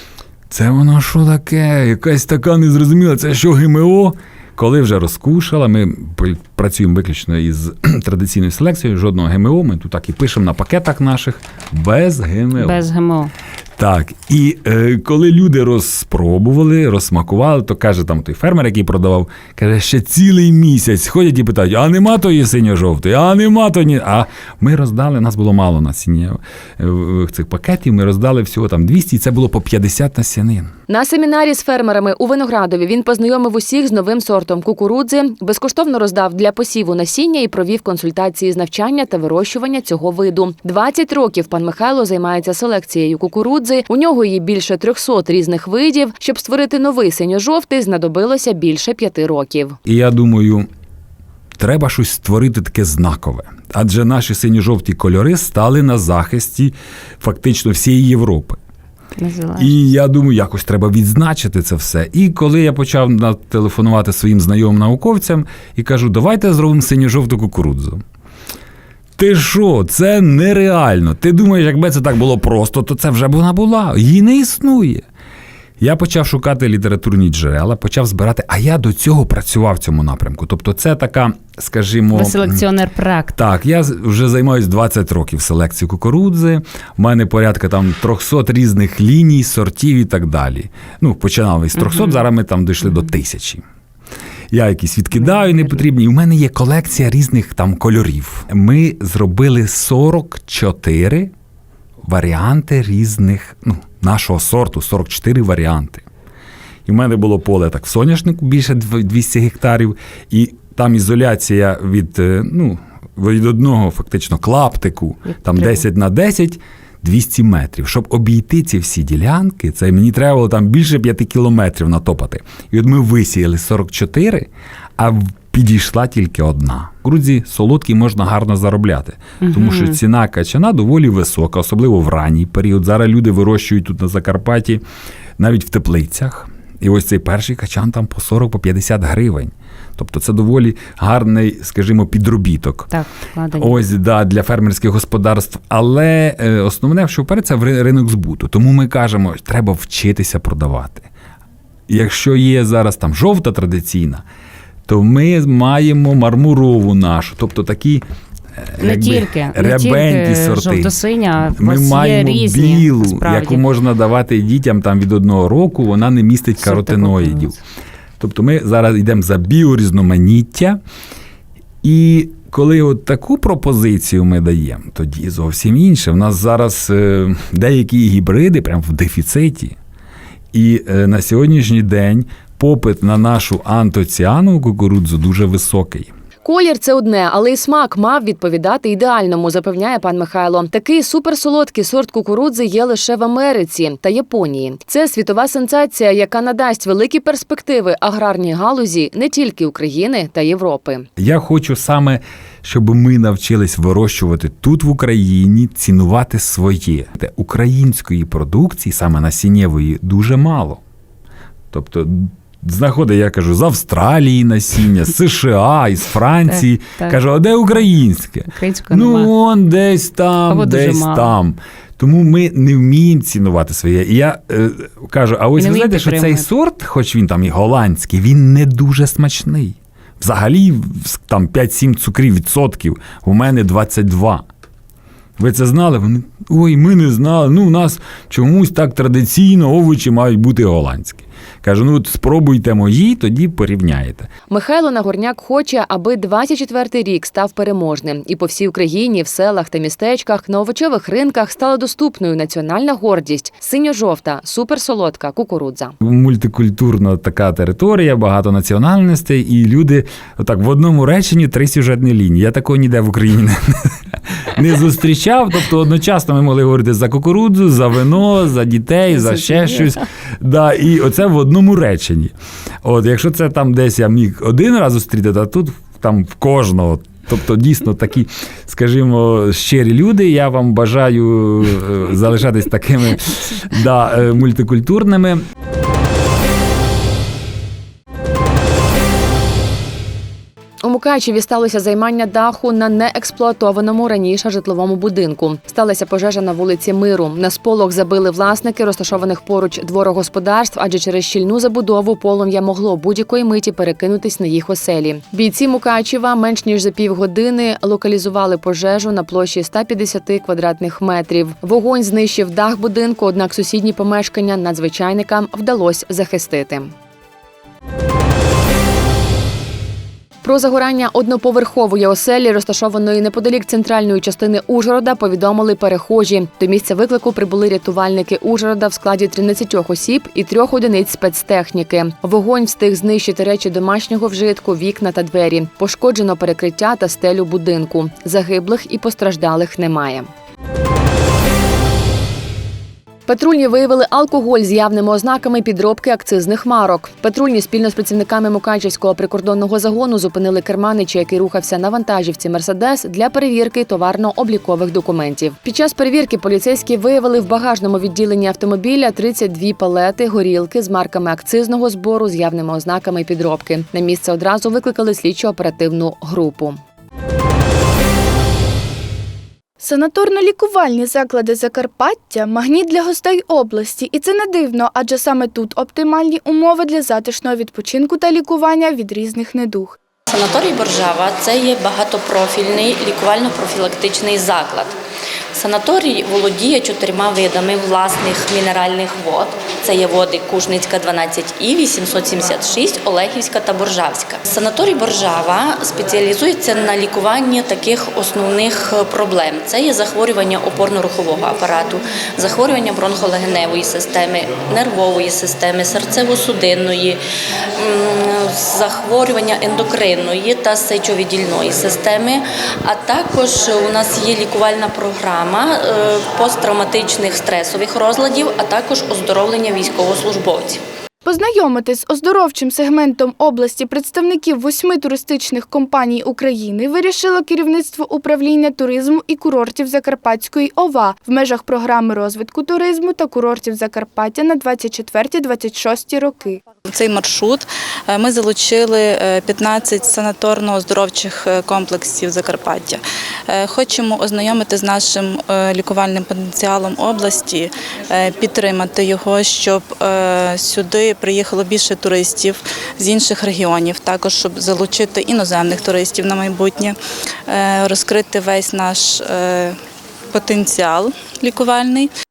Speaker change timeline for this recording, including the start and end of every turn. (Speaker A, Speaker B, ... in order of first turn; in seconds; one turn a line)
Speaker A: 0.5-12.8
Speaker B: 12.6-13.3
Speaker A: 13.8-30.7
Speaker C: 30.9-49.8
Speaker A: 49.8-50.7
Speaker A: 51.6-58.6
Speaker B: 59.2-59.7
Speaker A: 59.5-68.0
Speaker A: 69.2-75.0
Speaker A: 75.8-82.7
Speaker B: 82.1-83.3
Speaker A: 83.3-93.6
Speaker B: 91.8-92.2
Speaker A: 94.5-101.3
Speaker A: 102.0-106.0
Speaker A: 106.8-134.8
Speaker B: 115.5-115.8
Speaker B: 129.4-130.0
Speaker A: 135.4-142.9
Speaker B: 142.9-143.8
Speaker A: 143.5-151.1
Speaker A: 151.9-154.2
Speaker A: 154.9-158.0
Speaker A: 158.6-160.9
Speaker B: 158.8-163.6
Speaker A: 161.5-167.6
Speaker B: 166.6-167.4
Speaker A: 168.2-170.8
Speaker A: 171.8-179.8
Speaker A: 180.5-186.1
Speaker C: 186.4-201.1
Speaker A: 201.2-210.8
Speaker A: 211.7-234.4
Speaker B: 216.5-217.2
Speaker B: 218.5-219.3
Speaker B: 220.5-221.3
Speaker B: 225.6-226.5
Speaker A: 235.4-244.3
Speaker C: 244.5-255.9
Speaker A: 256.0-263.6
Speaker A: 264.6-285.4
Speaker B: 269.1-269.9
Speaker C: 290.8-316.9
Speaker C: 320.4-340.3
Speaker C: 343.3-366.8
Speaker D: 369.8-380.0
Speaker E: 380.3-384.9
Speaker E: 385.5-407.2
Speaker E: 407.8-420.8
Speaker D: 421.2-436.6
Speaker F: 436.9-459.8
Speaker F: 460.3-462.1